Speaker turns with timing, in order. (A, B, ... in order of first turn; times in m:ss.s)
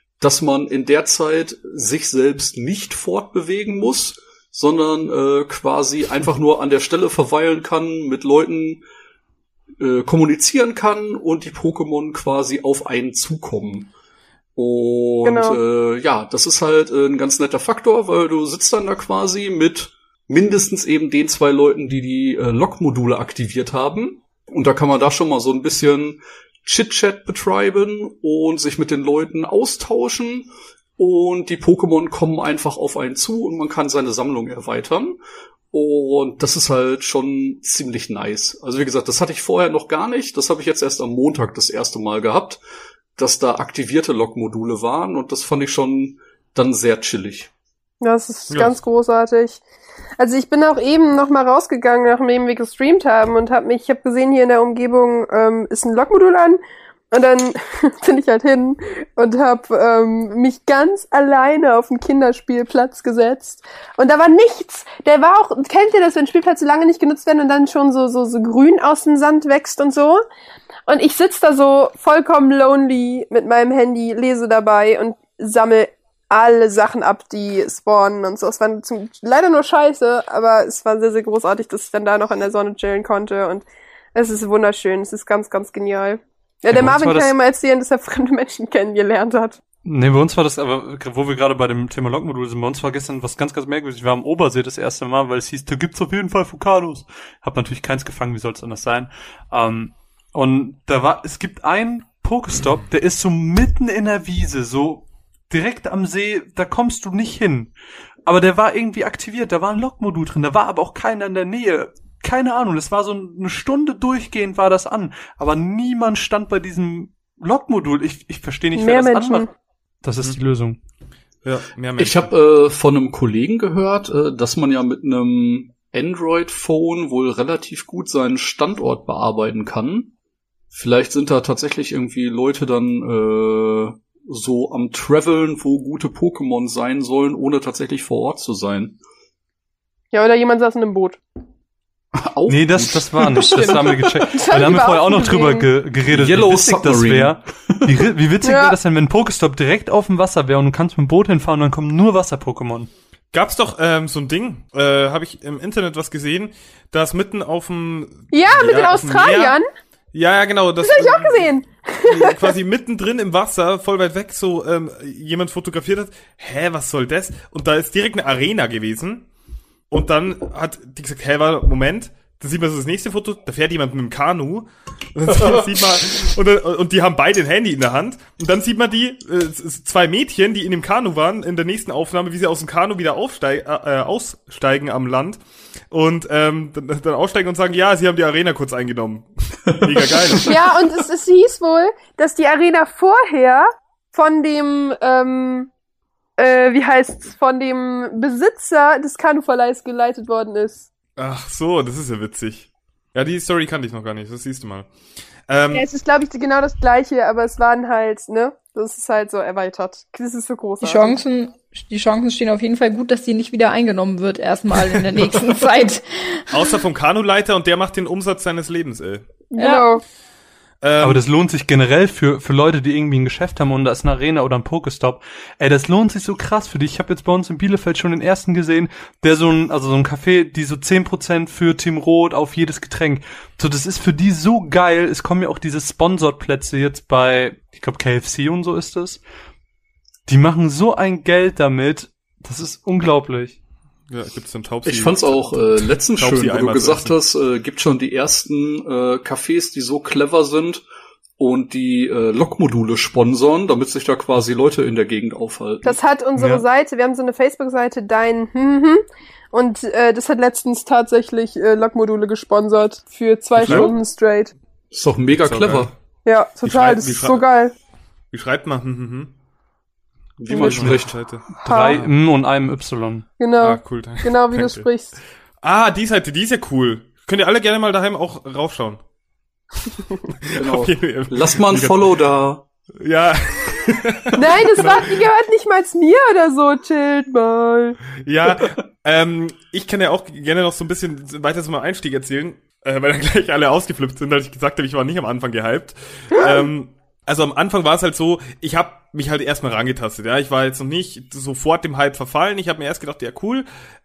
0:00.2-0:08.8 A
0:09.8-0:13.9 A
0:14.6-0:35.2 A
0:15.2-0:15.6 B
0:35.7-0:42.6 A
0:43.2-0:47.5 A
0:48.0-0:49.6 B
0:48.5-0:48.8 C
0:50.2-0:56.6 B
0:57.1-1:10.2 B
1:10.9-1:29.6 B
1:26.7-1:27.3 D
1:29.8-1:47.7 D
1:48.2-1:59.5 D
1:58.7-1:59.5 B
2:00.0-2:00.8 D
2:01.4-2:02.3 C
2:02.0-2:10.1 A
2:10.7-2:19.0 A
2:20.1-2:21.2 B
2:22.1-2:24.2 A
2:22.5-2:32.9 D
2:23.4-2:25.7 B
2:26.1-2:28.0 A
2:28.4-2:28.8 B
2:33.3-2:39.6 C
2:38.3-2:39.7 B
2:40.1-2:41.5 C
2:40.8-2:42.5 B
2:42.0-2:49.2 C
2:49.9-3:05.4 C
3:05.9-3:10.5 C
3:09.7-3:10.5 A
3:10.4-3:15.7 B
3:16.4-3:20.8 B
3:21.2-3:24.9 C
3:25.5-3:25.8 C
3:25.7-3:31.2 B
3:30.8-3:36.5 E
3:36.5-3:39.2 C
3:39.5-3:40.0 B
3:39.6-3:39.9 E
3:40.8-3:41.2 C
3:41.0-3:59.2 D
4:00.3-4:03.6 D
4:04.1-4:07.2 C
4:04.8-4:10.8 A
4:11.4-4:16.0 A
4:15.8-4:24.5 B
4:16.4-4:16.6 D
4:23.6-4:23.9 C
4:23.6-4:23.9 A
4:24.9-4:25.9 A
4:25.4-4:25.9 C
4:26.2-4:27.7 B
4:26.6-4:27.5 C
4:28.3-4:29.3 C
4:30.4-4:31.2 A
4:30.5-4:30.9 B
4:30.5-4:32.1 C
4:31.6-4:33.3 D
4:31.6-4:32.0 B
4:33.4-4:35.1 B
4:33.6-4:34.9 C
4:35.6-4:39.0 C
4:40.3-4:42.1 C
4:40.5-4:42.6 A
4:43.0-4:45.2 C
4:44.4-4:48.0 B
4:48.2-5:03.6 C
4:56.3-4:56.7 B